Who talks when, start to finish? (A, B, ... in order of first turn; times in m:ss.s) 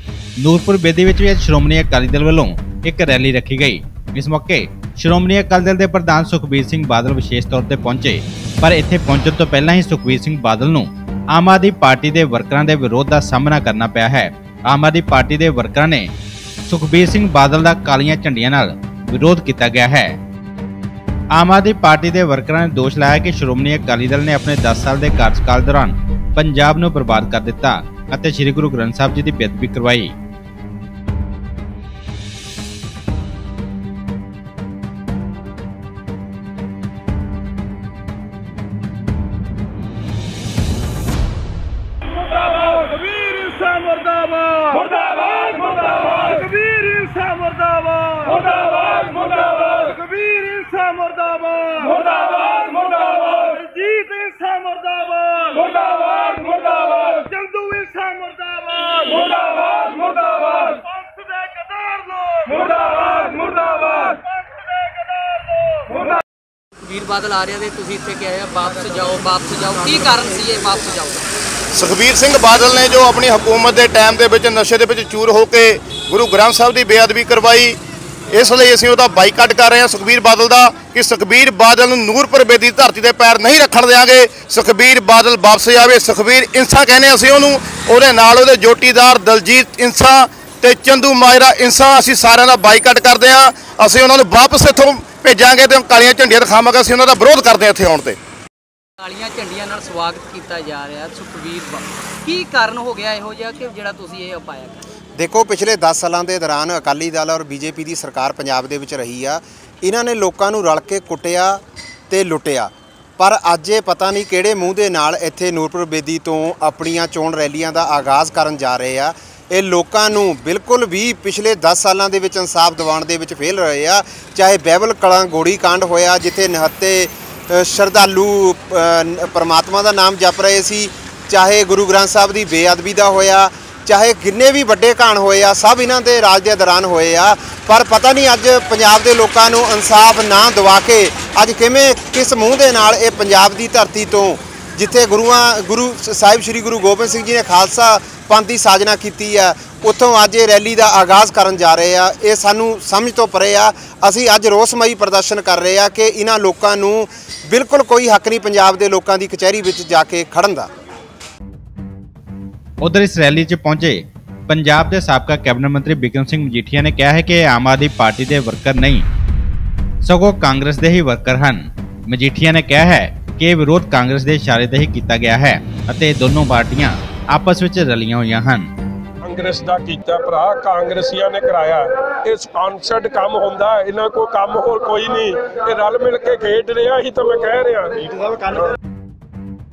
0:00.4-0:16.1 A
0:16.6-0:20.2 A
0:21.3-0:30.1 A
0:42.7-0:59.4 B
1:00.4-1:02.6 B
1:06.8-1:11.3 C
1:11.7-1:17.8 D
1:18.3-1:38.2 D
1:39.0-1:44.8 C
1:45.2-2:40.7 E
2:42.8-2:49.0 A
2:50.0-2:58.7 A
2:59.2-3:08.6 F